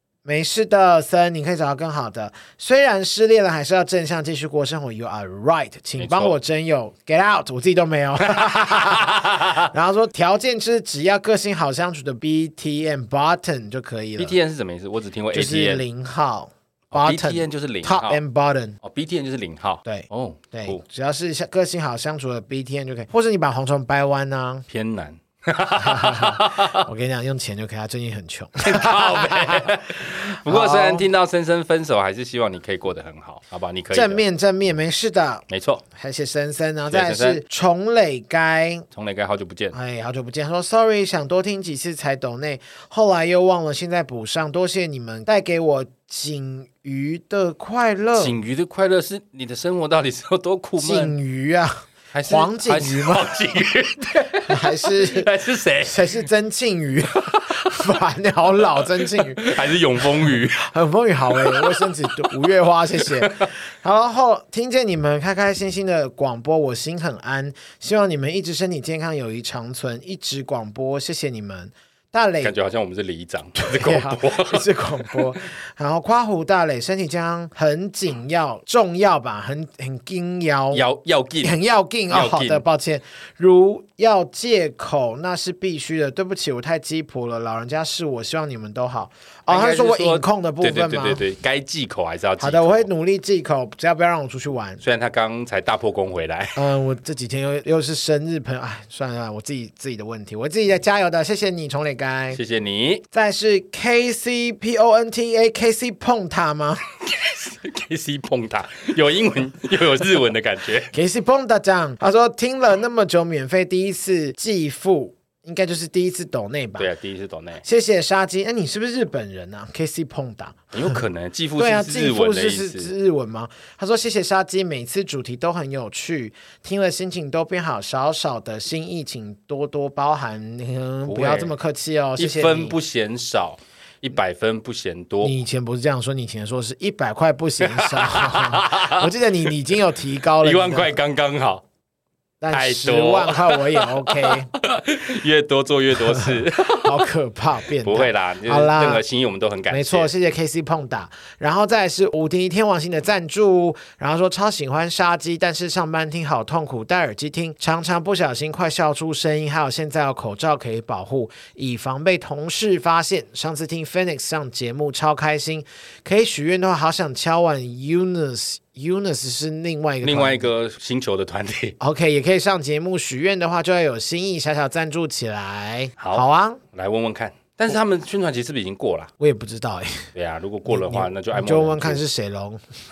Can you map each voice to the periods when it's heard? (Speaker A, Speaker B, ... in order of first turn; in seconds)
Speaker A: 0.2-14.4, 15.3-18.8, 19.9-24.7, 25.8-31.1, 33.9-38.9, 39.7-48.4, 50.8-53.3, 54.5-55.3, 55.8-72.5, 73.6-80.8, 81.4-91.2, 92.4-94.8, 96.5-102.4, 103.1-106.8, 110.9-116.9, 117.6-121.0, 121.6-132.8, 135.2-140.9, 142.4-144.5, 146.1-149.0, 149.7-170.5, 171.8-176.6, 179.2-180.1, 180.7-182.6
Speaker B: 6.0-6.4, 8.2-9.7, 14.2-15.8, 16.9-18.2, 18.8-20.8, 24.7-26.9, 28.6-34.2, 35.5-35.8, 36.9-37.4, 38.9-39.8, 48.1-51.1, 52.1-56.0, 59.0-60.6, 61.3-62.3, 63.0-63.5, 72.4-75.3, 80.7-81.6, 82.1-82.6, 89.5-92.9, 94.8-96.6, 102.3-103.0, 107.0-110.9, 116.8-117.6, 120.7-122.9, 131.1-131.5, 132.2-135.3, 137.8-139.1, 140.4-141.6, 142.5-147.1, 147.8-150.1, 170.0-171.8, 176.0-179.1, 180.2-182.0